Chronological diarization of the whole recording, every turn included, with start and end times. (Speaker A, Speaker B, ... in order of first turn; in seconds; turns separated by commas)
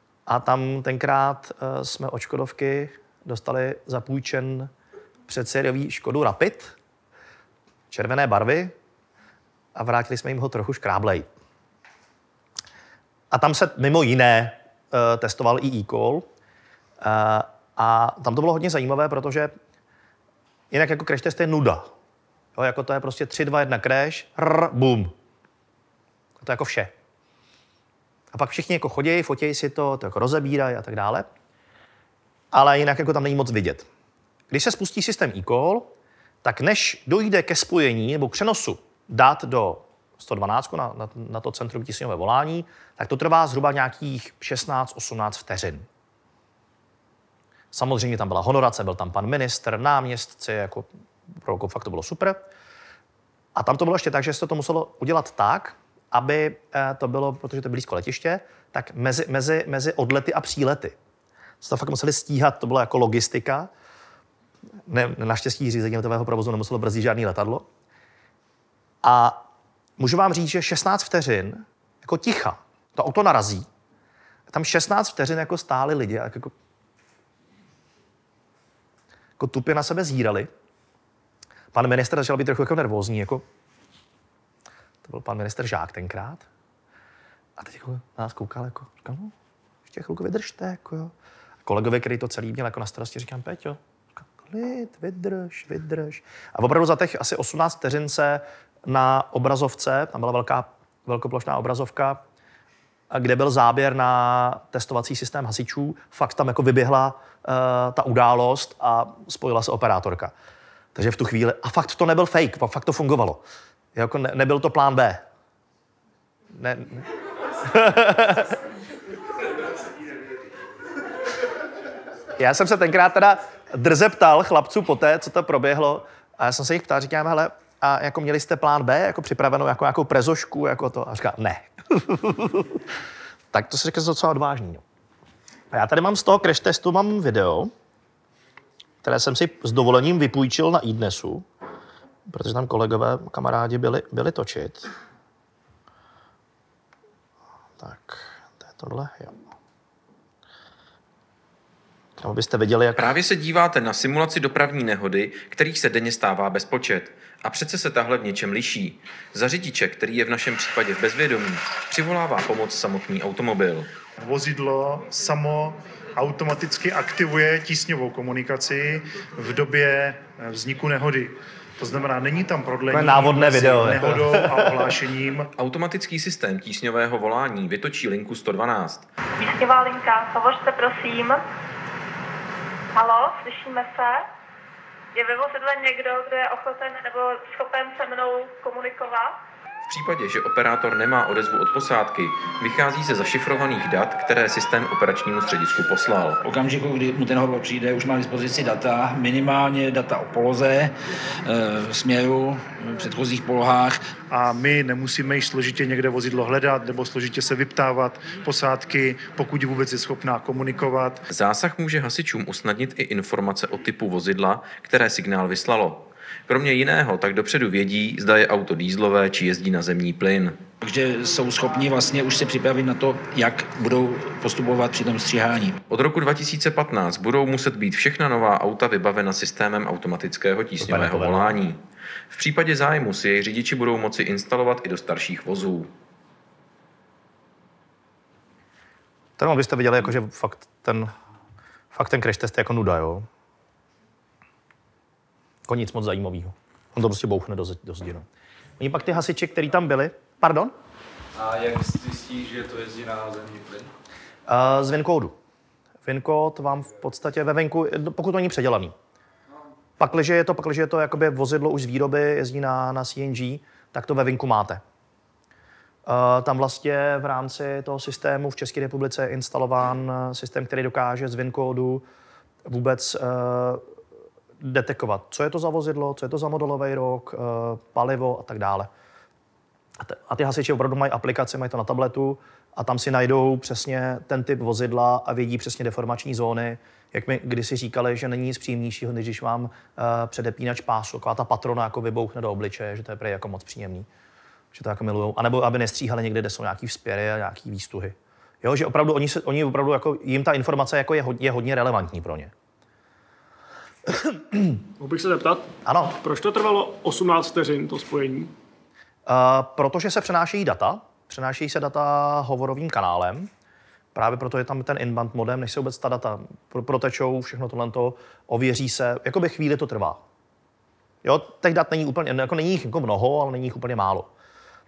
Speaker A: 0.3-4.7, Speaker A: 5.3-6.7, Speaker A: 7.9-8.7, Speaker A: 9.7-11.3, Speaker A: 13.3-16.3, Speaker A: 17.0-19.5, Speaker A: 20.7-21.9, Speaker A: 22.5-25.1, Speaker A: 26.4-26.9, Speaker A: 28.3-31.3, Speaker A: 32.5-33.9, Speaker A: 34.5-35.9, Speaker A: 36.4-45.9, Speaker A: 47.7-50.9, Speaker A: 51.4-52.4, Speaker A: 53.5-61.0, Speaker A: 61.6-63.7, Speaker A: 64.9-67.7, Speaker A: 69.0-69.4, Speaker A: 70.0-73.7, Speaker A: 74.5-76.5, Speaker A: 79.4-80.5, Speaker A: 81.7-83.4, Speaker A: 85.0-86.4, Speaker A: 87.6-89.3, Speaker A: 89.9-91.1, Speaker A: 91.6-102.2, Speaker A: 103.1-110.3, Speaker A: 110.9-113.4, Speaker A: 113.9-115.2, Speaker A: 116.5-117.0, Speaker A: 117.6-118.5, Speaker A: 122.4-132.8, Speaker A: 133.5-134.8, Speaker A: 135.7-137.7, Speaker A: 139.0-141.4, Speaker A: 142.3-144.9, Speaker A: 147.8-149.4, Speaker A: 152.2-153.2, Speaker B: 152.9-163.9, Speaker C: 164.2-175.5, Speaker A: 172.9-174.9, Speaker B: 175.6-179.1, Speaker D: 179.4-181.4, Speaker D: 182.9-184.2, Speaker D: 185.1-189.3, Speaker B: 189.9-196.4, Speaker E: 196.4-200.9, Speaker E: 201.4-204.0, Speaker C: 204.3-211.2, Speaker B: 211.3-220.6, Speaker E: 220.8-225.8, Speaker B: 225.8-231.8, Speaker A: 230.8-231.6, Speaker B: 232.3-235.9, Speaker A: 239.4-241.1, Speaker A: 241.9-243.3, Speaker A: 245.7-248.2, Speaker A: 248.8-250.7, Speaker F: 251.3-253.9, Speaker A: 254.5-255.4, Speaker A: 256.0-258.9, Speaker A: 260.0-264.8, Speaker A: 266.1-272.0, Speaker A: 272.6-273.8, Speaker A: 274.6-278.9, Speaker A: 280.0-294.1, Speaker A: 294.7-302.5, Speaker A: 304.2-304.6, Speaker G: 305.1-305.5, Speaker A: 305.8-306.2, Speaker G: 306.3-308.3, Speaker A: 309.2-313.5, Speaker A: 314.1-320.2, Speaker A: 321.2-324.3